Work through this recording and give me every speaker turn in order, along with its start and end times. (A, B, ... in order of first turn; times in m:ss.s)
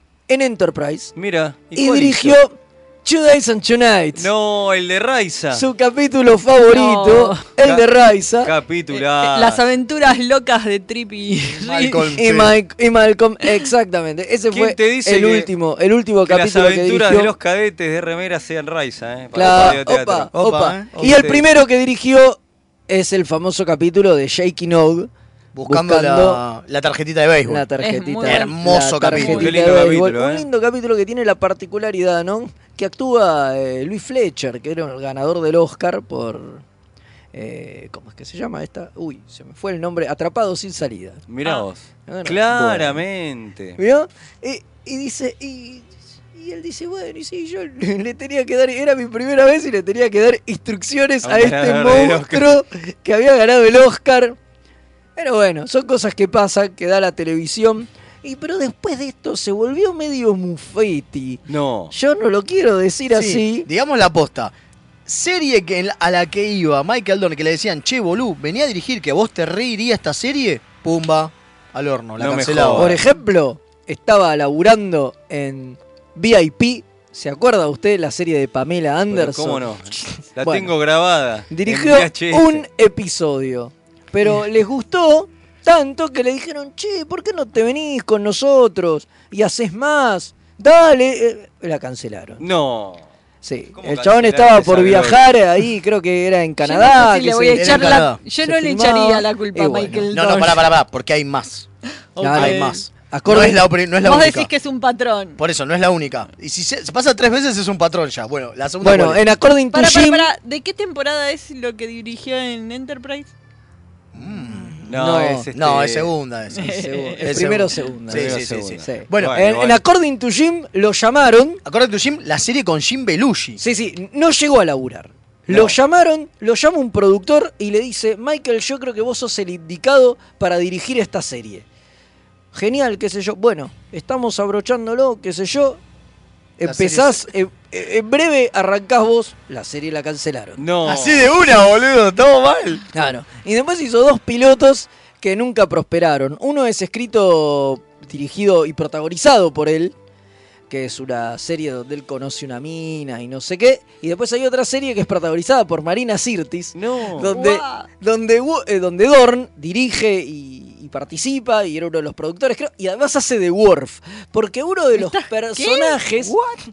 0:00.3-0:01.1 A
0:01.2-0:02.4 B
0:01.8-0:04.3 A
0:04.2-0:05.7 B
0:05.5-0:08.5 A
0:06.7-0:07.4 C
0:07.6-0:07.9 B
0:08.4-0:09.6 B
0:08.9-0:12.2 C
0:11.6-0:12.6 D
0:12.2-0:17.3 A
0:14.5-0:15.5 B
0:16.2-0:20.3 B
0:19.3-0:25.1 A
0:19.4-0:19.8 D
0:20.3-0:21.3 D
0:21.0-0:21.4 B
0:25.5-0:27.7 D
0:25.6-0:26.4 A
0:27.5-0:36.6 A
0:27.8-0:29.4 C
0:28.2-0:29.5 D
0:29.3-0:30.5 B
0:37.3-0:41.3 A
0:41.3-0:43.8 B
0:42.1-0:43.0 A
0:43.8-0:54.4 A
0:51.2-0:52.6 B
0:55.2-1:03.7 A
1:01.5-1:01.9 B
1:03.1-1:04.5 D
1:05.1-1:13.0 D
1:12.2-1:13.0 B
1:12.8-1:19.7 A
1:19.1-1:22.7 B
1:20.4-1:20.7 A
1:21.5-1:32.4 A
1:32.4-1:33.1 B
1:33.4-1:40.1 A
1:33.8-1:35.3 B
1:36.6-1:40.7 C
1:37.6-1:38.2 D
1:40.1-1:41.7 D
1:42.2-1:42.8 C
1:42.2-1:43.7 A
1:42.3-1:44.5 D
1:44.0-1:45.4 C
1:45.4-1:49.2 D
1:48.8-1:50.3 A
1:49.7-1:53.3 C
1:54.1-1:55.0 D
1:54.9-1:56.1 B
1:55.0-1:55.5 A
1:55.5-1:59.4 D
1:56.6-1:57.4 C
1:56.6-2:01.6 A
1:58.1-1:59.8 B
2:01.6-2:03.6 D
2:03.6-2:11.7 A
2:12.5-2:15.8 A
2:16.6-2:20.6 A
2:16.6-2:17.3 D
2:20.6-2:21.3 B
2:20.8-2:22.8 D
2:22.9-2:29.9 A
2:30.7-2:46.4 A
2:36.8-2:37.4 B
2:37.3-2:37.9 C
2:45.0-2:46.6 C